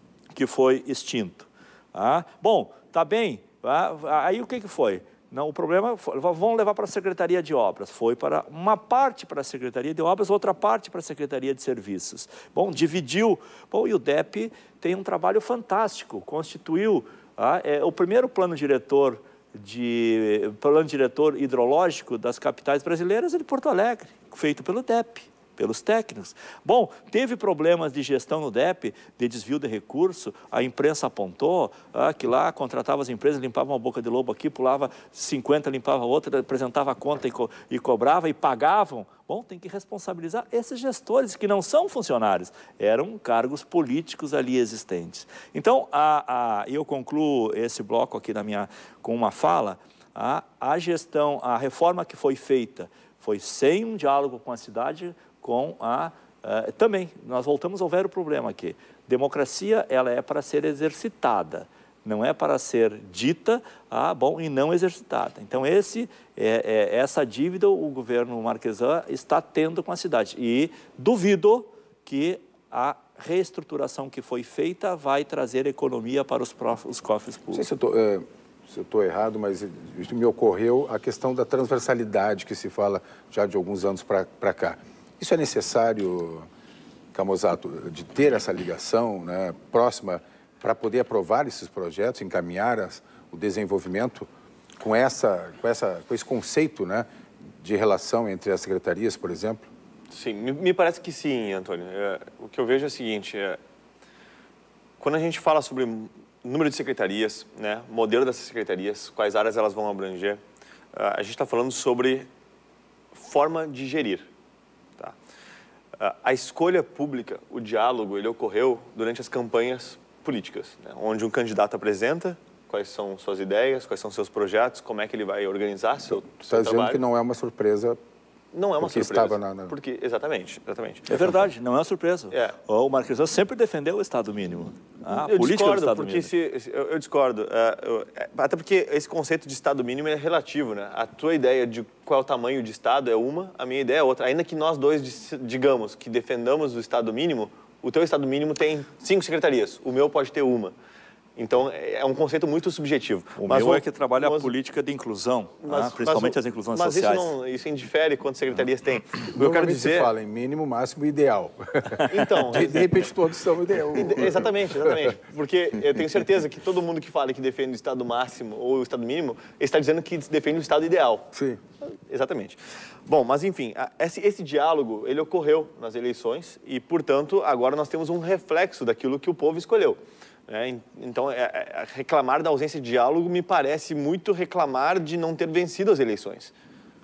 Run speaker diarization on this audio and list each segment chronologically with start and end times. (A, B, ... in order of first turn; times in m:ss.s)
0:00.3-1:17.7 A
1:17.5-1:26.5 B
1:27.1-1:34.3 B
1:34.8-1:37.1 B
1:37.6-1:39.7 B
1:40.1-1:43.6 C
1:45.0-1:50.4 C
1:50.9-1:52.3 C
1:53.1-1:54.3 C
1:56.0-2:07.0 C
2:06.4-2:08.0 B
2:08.5-2:11.2 C
2:08.8-2:09.8 B
2:11.1-2:16.3 A
2:15.1-2:30.7 C
2:31.4-2:34.5 C
2:33.4-2:37.3 A
2:35.6-2:40.1 C
2:39.4-2:45.1 B
2:42.1-2:43.0 C
2:43.9-2:51.3 C
2:51.3-2:51.6 B
2:51.9-3:06.5 C